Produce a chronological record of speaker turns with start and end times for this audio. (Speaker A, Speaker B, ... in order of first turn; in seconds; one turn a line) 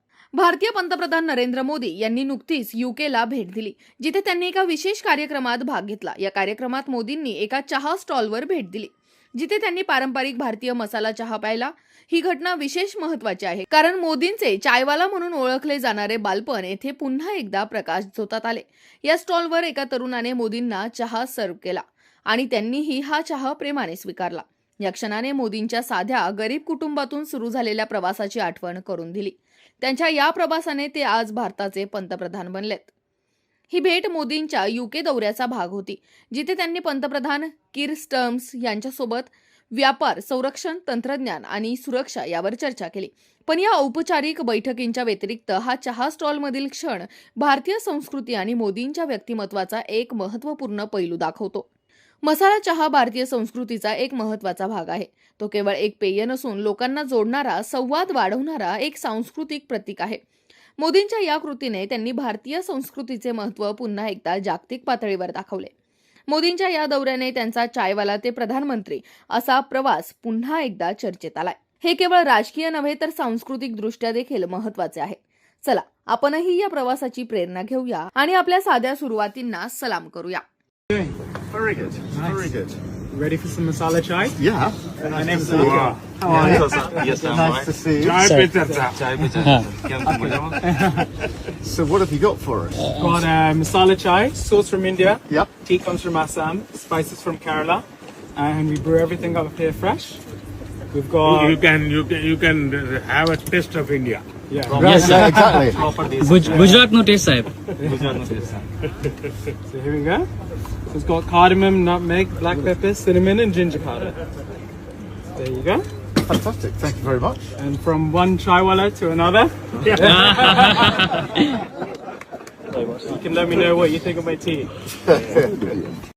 Speaker A: 0.4-32.9
Speaker A: 33.7-51.7
Speaker A: 52.2-60.2
Speaker A: 60.8-65.7
Speaker A: 66.3-80.4
Speaker B: 81.5-82.8
Speaker C: 82.2-82.5
Speaker C: 83.1-84.4
Speaker B: 84.4-88.3
Speaker C: 85.1-87.4
Speaker D: 85.5-86.1
Speaker E: 86.2-87.8
Speaker D: 86.6-86.9
Speaker D: 88.0-89.4
Speaker F: 88.2-88.5
Speaker C: 88.5-88.8
Speaker E: 88.6-90.6
Speaker C: 90.6-91.1
Speaker B: 91.6-92.8
Speaker C: 92.9-100.2
Speaker C: 100.9-101.6
Speaker D: 101.2-104.2
Speaker C: 104.5-105.6
Speaker E: 104.7-106.9
Speaker F: 104.8-105.5
Speaker B: 104.9-105.8
Speaker F: 106.2-107.5
Speaker C: 106.4-106.8
Speaker C: 107.7-108.2
Speaker E: 107.8-108.7
Speaker C: 109.7-110.3
Speaker C: 110.9-114.2
Speaker C: 115.3-115.8
Speaker B: 116.2-117.4
Speaker C: 117.6-120.7
Speaker D: 120.1-120.8
Speaker F: 120.3-121.0
Speaker C: 123.1-124.7
Speaker B: 125.1-126.0